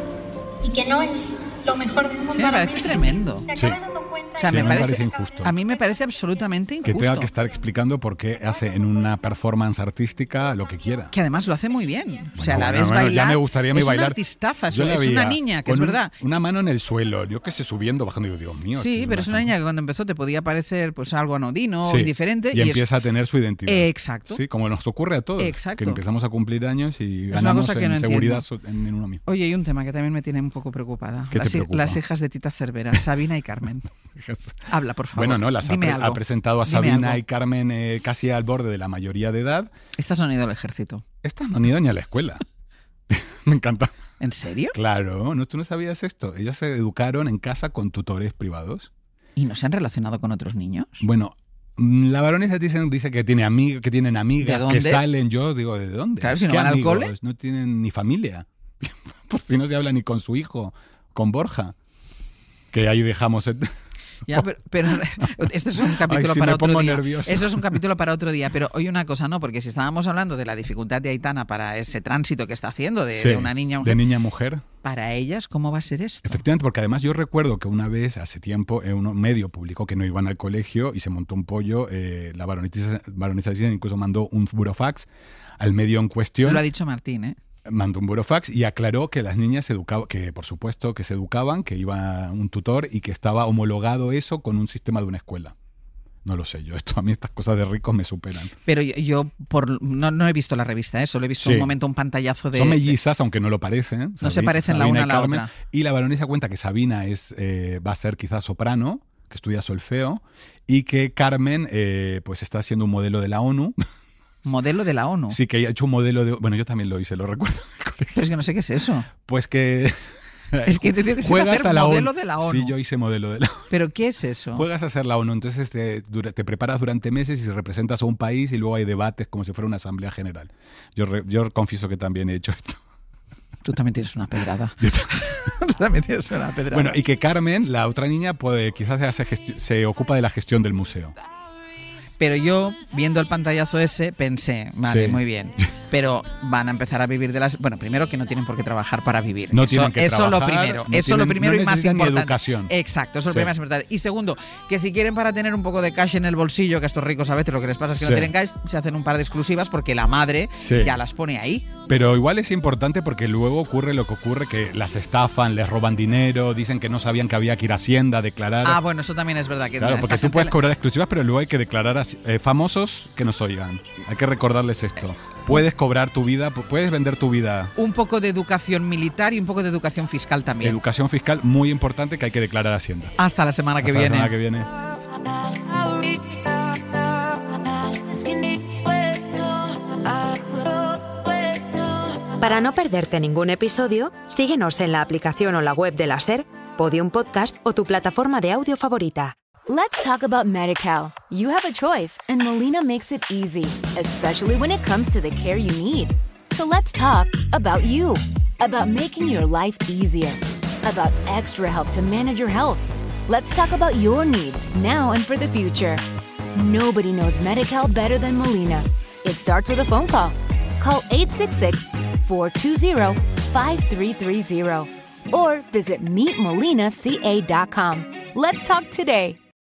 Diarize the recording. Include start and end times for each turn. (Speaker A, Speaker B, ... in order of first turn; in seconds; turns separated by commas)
Speaker A: 0.6-5.5, Speaker B: 2.3-3.5, Speaker B: 4.3-7.3, Speaker C: 4.5-5.5, Speaker C: 6.8-11.1, Speaker B: 11.1-16.1, Speaker C: 12.4-19.5, Speaker B: 18.7-22.9, Speaker C: 21.8-29.2, Speaker B: 23.6-24.4, Speaker B: 25.4-26.0, Speaker B: 27.3-28.4, Speaker B: 29.2-33.9, Speaker C: 31.3-32.0, Speaker C: 34.2-39.7, Speaker B: 34.7-37.2, Speaker B: 40.0-41.0, Speaker C: 41.2-42.4, Speaker C: 43.1-43.9, Speaker B: 44.2-44.8, Speaker C: 44.7-48.9, Speaker B: 49.4-51.0, Speaker C: 51.0-61.7, Speaker B: 54.4-55.0, Speaker B: 56.2-57.1, Speaker C: 62.7-63.7, Speaker B: 64.3-74.0, Speaker C: 66.0-67.8, Speaker C: 73.1-74.6, Speaker B: 74.8-76.4, Speaker C: 76.2-85.1, Speaker C: 85.6-86.6, Speaker B: 86.4-87.3, Speaker C: 87.7-95.5, Speaker C: 96.2-98.5, Speaker B: 98.7-103.0, Speaker C: 101.4-101.7, Speaker C: 102.5-113.8, Speaker B: 104.2-105.5, Speaker B: 114.5-115.4, Speaker C: 115.3-118.3, Speaker B: 118.1-119.1, Speaker C: 119.2-120.0, Speaker C: 120.5-123.8, Speaker B: 120.6-122.7, Speaker B: 123.7-124.7, Speaker C: 124.5-132.8, Speaker B: 133.6-137.0, Speaker C: 134.8-135.1, Speaker C: 136.7-141.1, Speaker B: 142.2-161.7, Speaker C: 144.8-145.7, Speaker C: 149.5-152.7, Speaker C: 157.9-158.3, Speaker C: 160.6-160.9, Speaker C: 161.9-168.8, Speaker B: 168.6-170.5, Speaker C: 169.8-177.7, Speaker B: 177.8-180.8, Speaker C: 180.6-183.1, Speaker B: 183.2-184.4, Speaker C: 183.8-184.7, Speaker D: 192.5-199.3, Speaker E: 199.7-216.0, Speaker E: 216.5-229.4